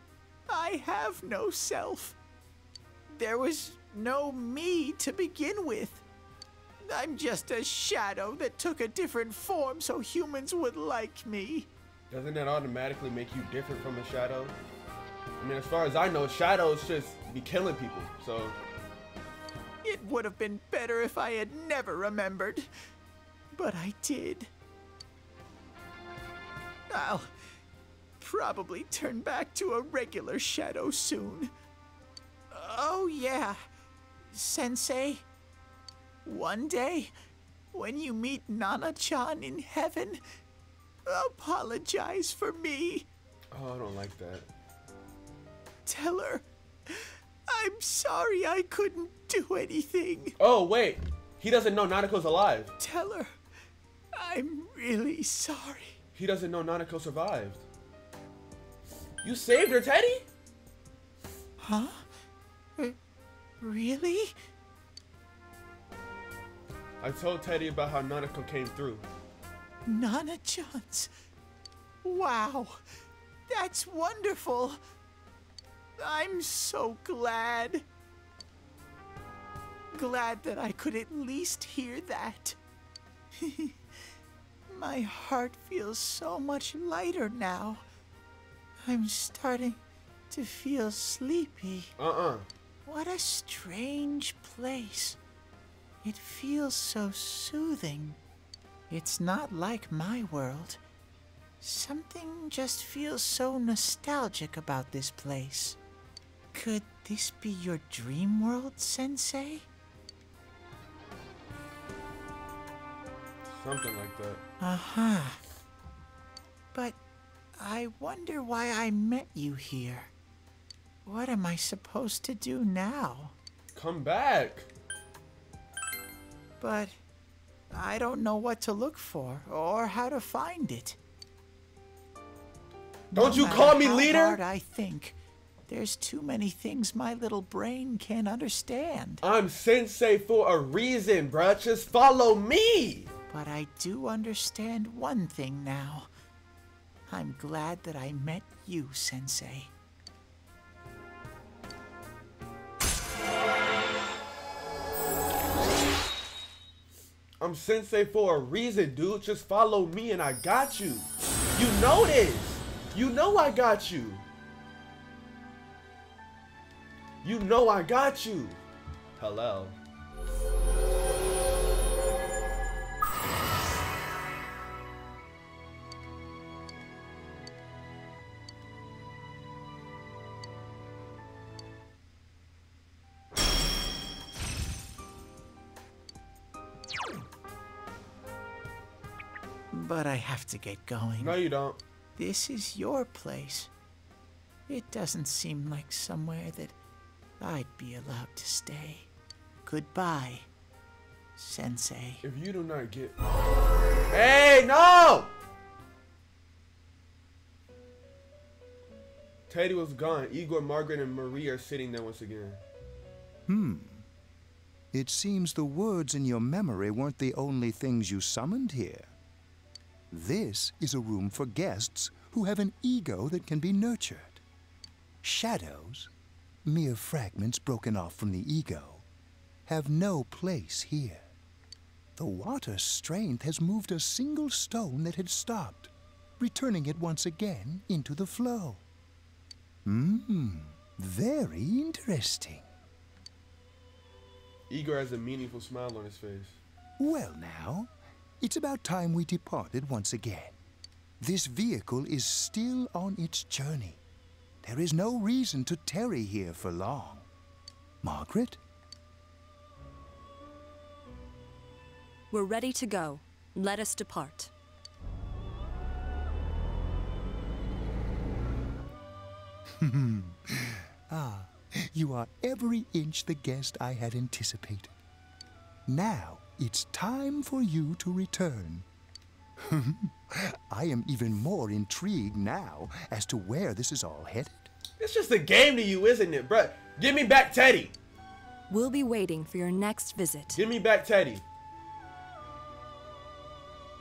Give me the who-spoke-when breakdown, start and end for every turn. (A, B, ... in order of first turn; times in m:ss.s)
0:00.5-0:02.2 A
0:03.1-0:06.0 A
0:06.9-0:11.7 A
0:12.1-0:14.5 B
0:15.4-0:18.6 B
0:19.8-0:22.7 A
0:23.5-0:24.5 A
0:26.9-0:27.3 A
0:28.2-0:31.5 A
0:32.5-0:33.6 A
0:34.3-0:35.2 A
0:36.2-0:37.1 A
0:37.7-0:40.2 A
0:41.1-0:43.1 A
0:43.5-0:44.5 B
0:45.8-0:50.4 A
0:50.4-0:52.7 B
0:52.8-0:53.3 A
0:54.2-0:56.0 A
0:56.1-0:57.6 B
0:59.2-1:00.3 B
1:01.6-1:02.1 A
1:03.6-1:04.3 A
1:07.0-1:09.0 B
1:09.8-1:11.1 A
1:12.0-1:12.8 A
1:13.5-1:14.8 A
1:16.0-1:17.8 A
1:19.9-1:22.6 A
1:23.4-1:23.7 A
1:24.7-1:27.8 A
1:28.8-1:29.8 A
1:30.3-1:31.9 A
1:32.0-1:32.5 B
1:32.8-1:35.2 A
1:36.0-1:38.2 A
1:38.9-1:40.8 A
1:41.6-1:45.8 A
1:46.5-1:49.6 A
1:53.5-1:54.4 B
1:54.6-1:55.4 A
1:57.6-2:00.1 A
2:01.0-2:03.3 A
2:03.7-2:04.7 B
2:06.6-2:06.9 A
2:07.7-2:11.0 A
2:13.1-2:19.2 A
2:13.1-2:14.4 B
2:19.2-2:23.1 B
2:23.3-2:26.1 A
2:27.1-2:29.7 A
2:37.4-2:44.2 B
2:47.2-2:48.6 B
2:49.2-2:49.8 B
3:09.7-3:11.4 A
3:11.2-3:11.8 B
3:12.2-3:13.7 A
3:14.7-3:16.8 A
3:17.4-3:19.1 A
3:19.6-3:20.5 A
3:21.4-3:22.2 A
3:22.2-3:23.2 B
3:24.1-3:25.3 B
3:29.5-3:32.6 B
3:33.5-3:34.0 C
3:34.9-3:39.1 C
3:40.1-3:44.4 C
3:45.2-3:46.1 C
3:46.6-3:49.0 C
3:49.7-3:51.2 C
3:52.2-3:58.8 C
3:59.8-4:02.7 C
4:04.7-4:06.6 B
4:07.0-4:10.5 C
4:11.2-4:14.0 C
4:14.6-4:17.2 C
4:18.0-4:18.6 C
4:22.3-4:24.5 D
4:29.8-4:30.4 C
4:31.1-4:34.9 C
4:35.9-4:38.8 C
4:39.6-4:44.7 C
4:45.0-4:47.9 B
4:48.7-4:50.6 D
4:50.5-4:51.4 B